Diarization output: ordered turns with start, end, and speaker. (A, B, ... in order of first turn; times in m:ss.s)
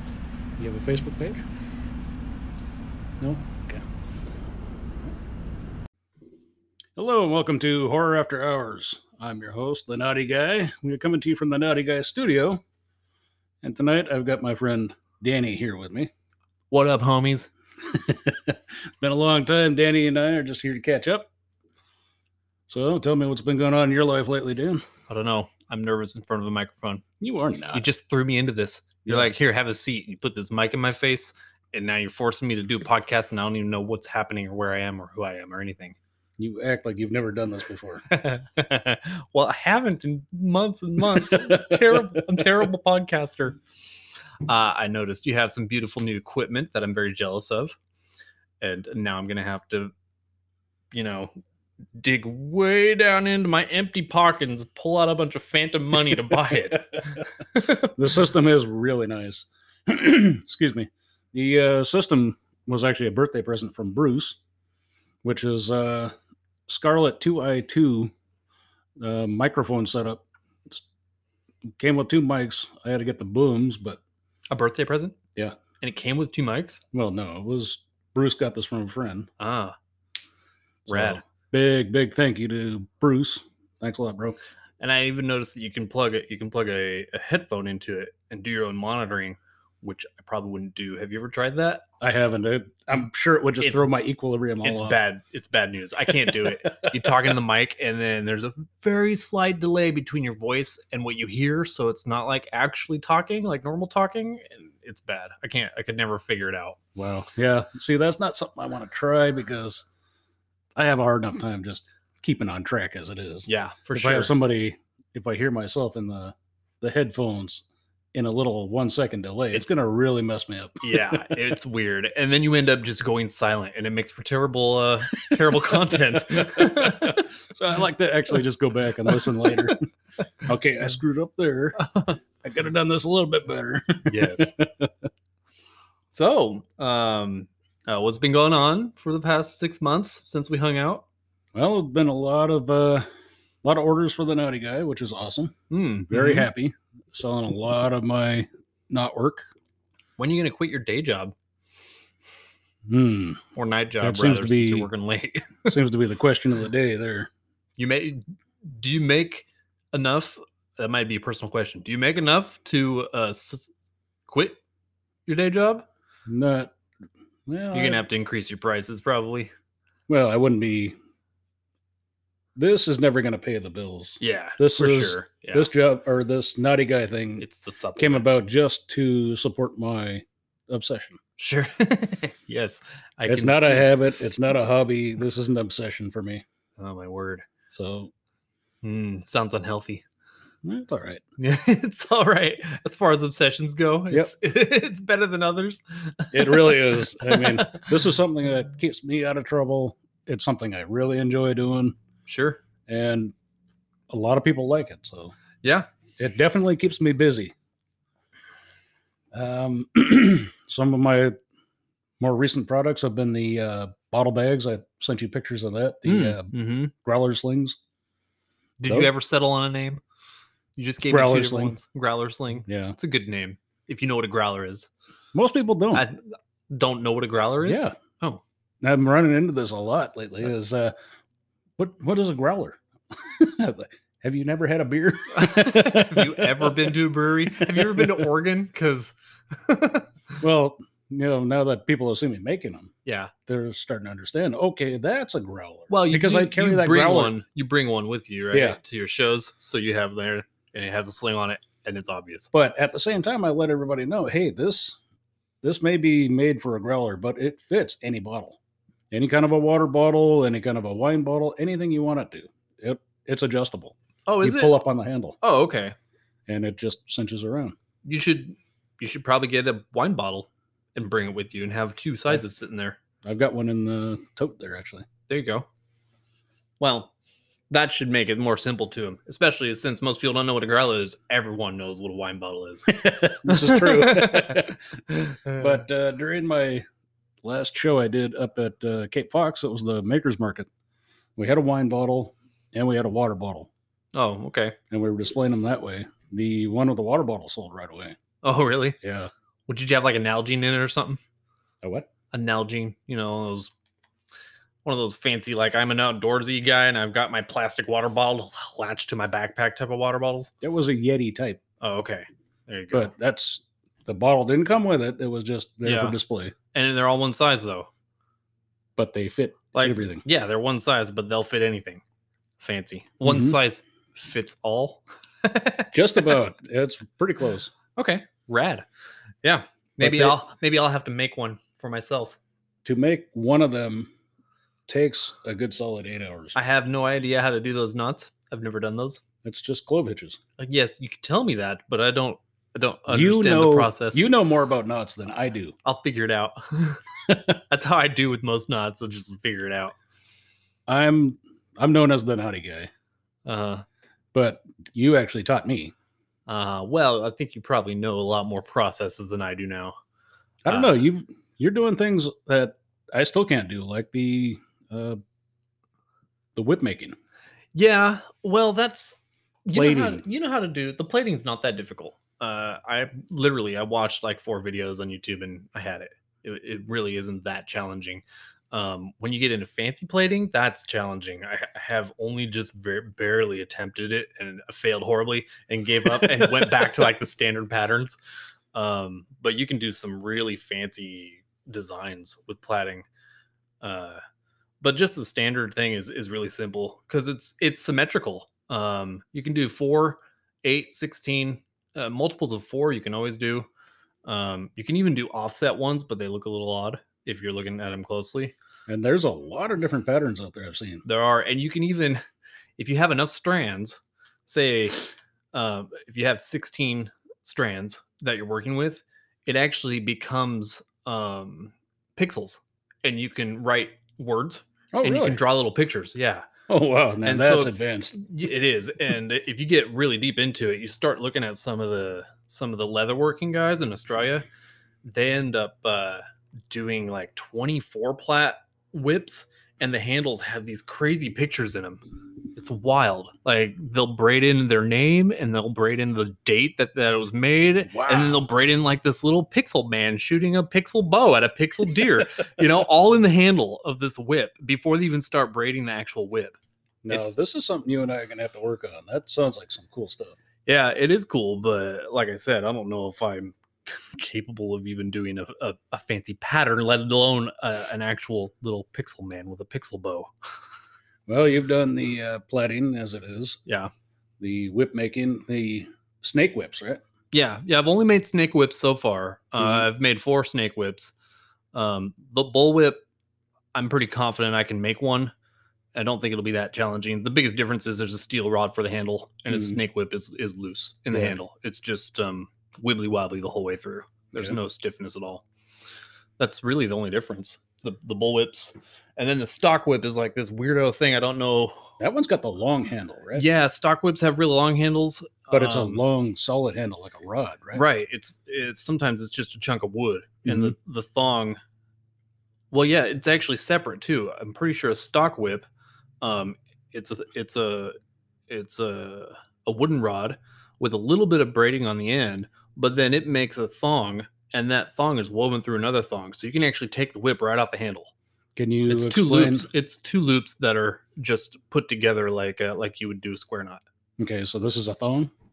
0:00.6-0:01.4 A
0:03.2-0:03.8 A
0:07.0-0:12.6 A
0:13.6-0:16.1 A
0:16.7-0:17.5 B
0:17.8-0:21.3 A
0:22.7-0:24.8 A
0:25.1-0:27.0 B
0:27.2-0:27.8 A
0:27.7-0:36.0 B
0:29.0-0:29.3 A
0:36.4-0:38.0 A
0:38.1-0:43.6 B
0:41.1-0:42.2 A
0:44.4-0:47.8 B
0:48.6-0:49.9 B
0:50.9-0:51.3 B
0:52.0-0:57.9 B
0:57.8-1:04.4 A
1:05.2-1:06.1 A
1:06.7-1:08.1 A
1:09.0-1:10.8 A
1:11.8-1:14.0 A
1:14.5-1:15.2 B
1:15.8-1:16.8 B
1:16.9-1:19.3 A
1:19.4-1:19.7 B
1:20.9-1:21.2 B
1:20.9-1:24.4 A
1:24.8-1:31.8 B
1:32.0-1:35.0 A
1:33.6-1:33.8 B
1:34.6-1:46.8 B
1:47.0-1:49.9 A
1:50.7-2:01.4 A
1:53.4-1:54.3 B
2:00.8-2:07.3 B
2:05.9-2:09.8 A
2:10.4-2:11.8 A
2:11.8-2:12.2 B
2:12.4-2:14.9 A
2:14.0-2:14.5 B
2:16.1-2:21.0 B
2:21.5-2:23.1 A
2:23.6-2:25.5 A
2:25.7-2:26.5 B
2:26.1-2:29.5 A
2:30.2-2:31.3 B
2:32.9-2:33.4 A
2:33.6-2:35.7 B
2:34.0-2:34.9 A
2:35.6-2:37.3 A
2:37.8-2:43.7 B
2:44.3-2:44.6 B
2:45.2-2:45.8 B
2:46.2-2:46.7 A
2:47.5-2:48.0 A
2:47.7-2:49.5 B
2:50.1-2:51.0 A
2:52.6-3:01.2 A
2:54.2-2:55.7 B
2:57.4-2:58.2 B
3:01.4-3:03.9 B
3:03.2-3:06.4 A
3:06.8-3:07.4 B
3:07.7-3:08.1 A
3:08.8-3:10.0 B
3:10.6-3:11.2 A
3:11.4-3:17.9 B
3:16.3-3:22.0 A
3:22.3-3:22.6 B
3:22.9-3:23.3 A
3:24.1-3:25.3 A
3:26.2-3:27.5 A
3:29.3-3:31.4 A
3:32.2-3:37.8 A
3:36.0-3:36.9 B
3:38.8-3:40.0 B
3:40.8-3:44.9 B
3:41.1-3:41.8 A
3:42.6-3:43.0 A
3:45.3-3:46.0 A
3:45.9-3:48.4 B
3:47.6-3:47.9 A
3:48.8-3:50.9 A
3:51.8-3:56.9 A
3:55.3-4:00.1 B
3:57.5-3:58.3 A
4:00.4-4:02.9 A
4:03.0-4:03.3 B
4:03.4-4:07.4 A
4:05.9-4:12.5 B
4:08.5-4:08.8 A
4:12.5-4:15.0 A
4:15.6-4:18.6 A
4:19.1-4:25.4 A
4:24.2-4:24.8 B
4:25.4-4:25.9 B
4:26.5-4:27.7 A
4:28.0-4:33.0 B
4:33.2-4:35.0 A
4:35.3-4:35.6 B
4:36.8-4:37.1 B
4:37.7-4:44.6 B
4:42.9-4:44.8 A
4:45.4-4:46.8 A
4:47.4-4:50.7 A
4:51.4-4:53.7 A
4:54.1-4:54.8 B
4:54.9-4:58.2 A
4:58.4-4:59.0 B
4:59.0-4:59.3 A
4:59.7-5:01.2 B
5:01.8-5:02.1 A
5:02.3-5:03.7 B
5:04.8-5:10.5 B
5:10.6-5:11.6 A
5:11.8-5:13.1 B
5:12.9-5:16.5 A
5:15.8-5:16.2 B
5:16.7-5:17.9 B
5:19.0-5:20.2 A
5:19.7-5:22.0 B
5:22.6-5:26.3 B
5:23.2-5:23.6 A
5:25.9-5:27.7 A
5:28.0-5:28.8 B
5:29.4-5:32.4 B
5:30.0-5:30.4 A
5:32.8-5:34.1 A
5:34.9-5:36.6 A
5:36.5-5:39.2 B
5:39.4-5:40.4 A
5:40.6-5:44.2 B
5:43.1-5:45.7 A
5:45.8-5:47.0 B
5:47.7-5:49.9 B
5:50.9-5:52.9 A
5:53.4-5:53.8 B
5:54.3-5:55.9 A
5:56.5-6:00.0 B
6:00.6-6:05.2 A
6:00.7-6:01.0 B
6:06.5-6:07.1 A
6:07.7-6:28.2 B
6:09.7-6:10.2 A
6:28.7-6:33.0 B
6:33.8-6:34.2 B
6:34.8-6:43.7 B
6:44.2-6:48.5 B
6:48.9-6:51.0 A
6:51.0-6:52.2 B
6:52.8-7:06.5 B
7:04.9-7:05.4 A
7:06.7-7:08.2 A
7:07.2-7:14.4 B
7:15.0-7:22.0 B
7:22.5-7:36.6 B
7:27.9-7:28.4 A
7:37.0-7:40.4 A
7:37.1-7:37.3 B
7:40.6-7:50.3 B
7:51.3-7:53.6 A
7:53.6-7:53.9 B
7:54.4-7:57.0 A
7:57.3-8:01.1 B
7:59.6-7:59.8 A
8:01.7-8:03.0 B
8:03.7-8:05.3 B
8:05.9-8:15.4 B
8:09.5-8:09.8 A
8:11.1-8:11.4 A
8:16.4-8:21.9 B
8:22.0-8:23.4 A
8:23.3-8:26.0 B
8:25.5-8:27.8 A
8:27.7-8:31.6 B
8:30.4-8:30.7 A
8:32.7-8:35.6 B
8:36.2-8:37.9 B
8:38.5-8:48.1 B
8:48.6-8:49.7 A
8:48.9-8:53.8 B
8:54.2-8:55.3 A